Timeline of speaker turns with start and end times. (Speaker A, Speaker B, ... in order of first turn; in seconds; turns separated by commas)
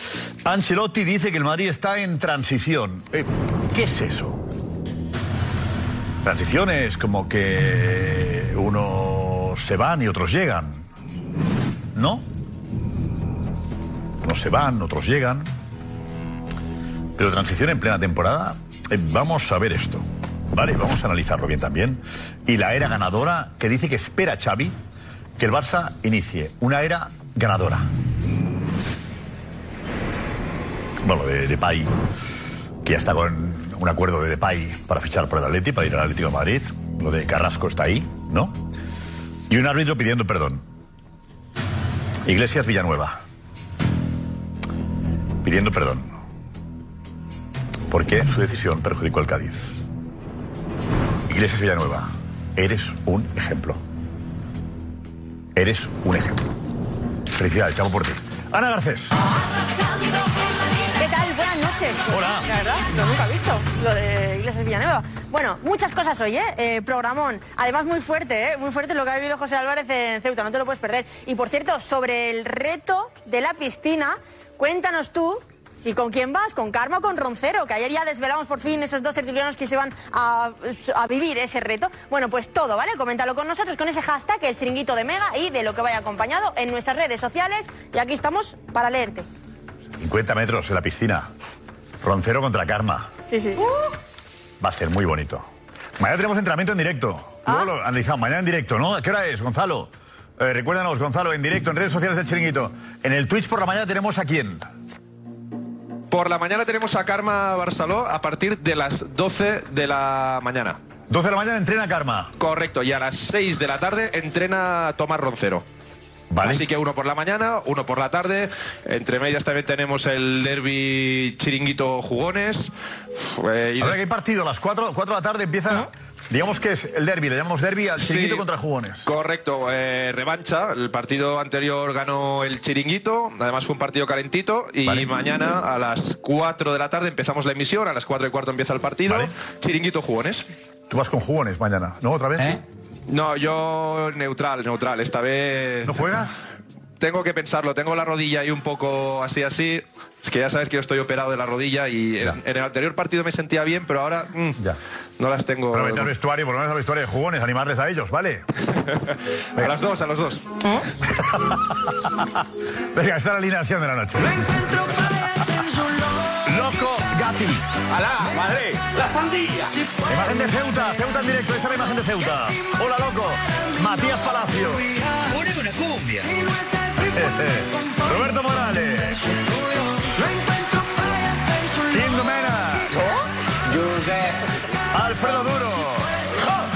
Speaker A: 0.5-4.4, Speaker A: 6.2-10.9, Speaker A: 11.9-12.2, Speaker A: 14.2-15.5, Speaker A: 17.2-24.8, Speaker A: 25.4-27.9, Speaker A: 31.0-31.9, Speaker A: 32.8-38.6, Speaker A: 39.5-40.6, Speaker A: 42.2-43.2, Speaker A: 45.4-46.2, Speaker A: 47.9-49.8, Speaker A: 51.3-53.8, Speaker A: 55.6-56.5, Speaker A: 57.3-59.2, Speaker B: 61.0-89.3, Speaker A: 62.1-62.4, Speaker A: 90.0-91.3, Speaker A: 92.0-93.1, Speaker B: 93.3-93.7, Speaker A: 94.6-95.5, Speaker A: 96.0-104.7, Speaker C: 106.1-110.8, Speaker A: 111.1-112.3, Speaker C: 112.4-115.7, Speaker A: 116.3-116.7, Speaker C: 116.4-124.0, Speaker A: 123.8-129.1, Speaker C: 128.0-128.5, Speaker C: 129.1-140.5, Speaker A: 134.8-135.1, Speaker A: 139.1-139.3, Speaker A: 140.9-142.6, Speaker C: 143.1-146.1, Speaker A: 145.8-146.3, Speaker C: 147.0-154.6, Speaker C: 155.2-156.1, Speaker A: 155.7-158.4, Speaker C: 158.8-160.6, Speaker A: 161.1-162.2, Speaker A: 162.9-165.2, Speaker A: 166.4-167.7, Speaker A: 170.1-174.9, Speaker A: 177.1-179.3, Speaker A: 181.9-183.0, Speaker A: 184.9-186.2